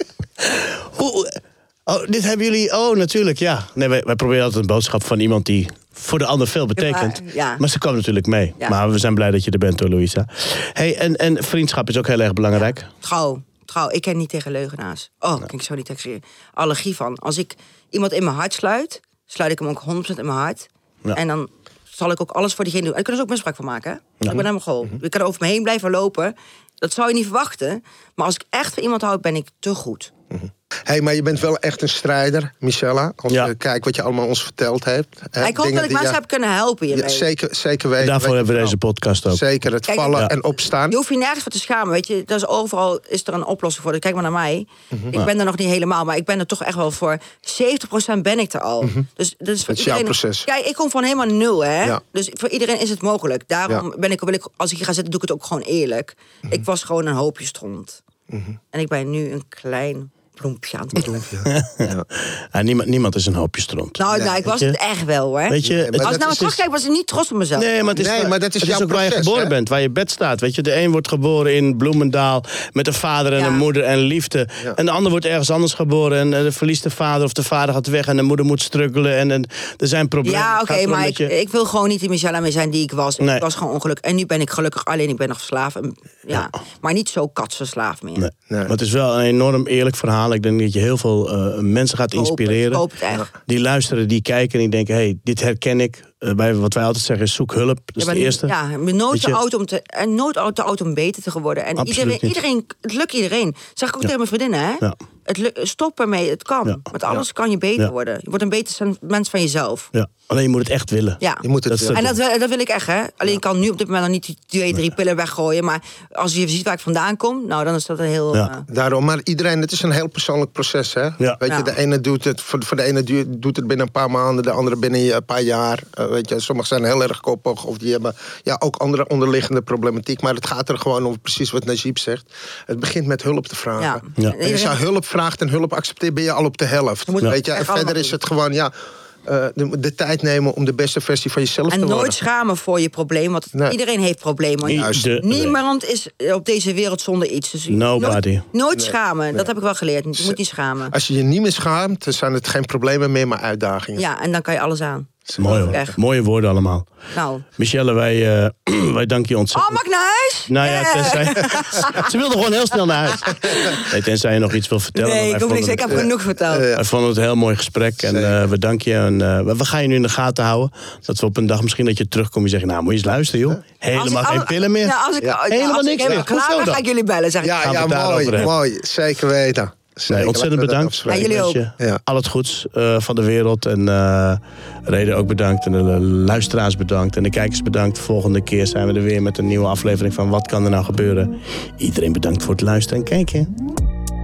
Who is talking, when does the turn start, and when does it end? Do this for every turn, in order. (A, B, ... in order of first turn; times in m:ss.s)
0:00.4-0:12.9 A
0:06.8-0:07.6 B
0:13.0-0:30.1 B
0:30.3-0:36.2 C
0:35.4-0:37.3 B
0:36.9-0:38.8 C
0:38.0-0:39.4 A
0:39.3-0:41.0 C
0:39.9-0:40.3 B
0:40.9-0:58.0 B
0:49.7-0:50.5 C
0:58.3-0:58.6 C
0:58.7-1:01.2 B
1:01.0-1:02.0 C
1:01.5-1:04.8 A
1:04.0-1:07.8 B
1:04.1-1:04.4 C
1:05.5-1:06.6 A
1:05.6-1:06.4 C
1:07.6-1:21.3 A
1:07.9-1:09.5 C
1:13.3-1:13.6 B
1:20.2-1:28.3 B
1:23.2-1:23.4 A
1:28.2-1:32.8 A
1:28.5-1:28.7 C
1:32.2-1:33.3 B
1:33.4-1:38.5 A
1:38.0-1:49.9 B
1:41.8-1:42.4 A
1:46.7-1:47.2 A
1:49.9-1:52.1 A
1:51.2-1:58.7 B
1:51.4-1:52.1 C
1:58.7-2:18.7 C
2:01.5-2:01.7 B
2:13.8-2:14.8 B
2:17.1-2:18.2 B
2:19.2-2:22.2 C
2:21.7-2:30.9 B
2:24.6-2:25.6 A
2:24.7-2:25.0 C
2:27.7-2:28.4 A
2:28.7-2:29.5 C
2:30.9-2:34.0 C
2:34.0-2:36.0 B
2:35.3-2:35.9 C
2:35.4-2:36.9 A
2:37.1-2:37.4 B
2:37.6-2:39.8 A
2:39.5-2:42.1 B
2:40.5-2:46.1 A
2:43.1-2:43.9 B
2:44.9-2:46.7 B
2:45.9-2:46.8 C
2:46.7-2:56.8 A
2:48.1-2:48.4 C
2:53.9-2:57.6 B
2:57.4-3:02.0 C
2:57.6-2:58.5 A
3:00.1-3:13.5 A
3:01.1-3:01.6 B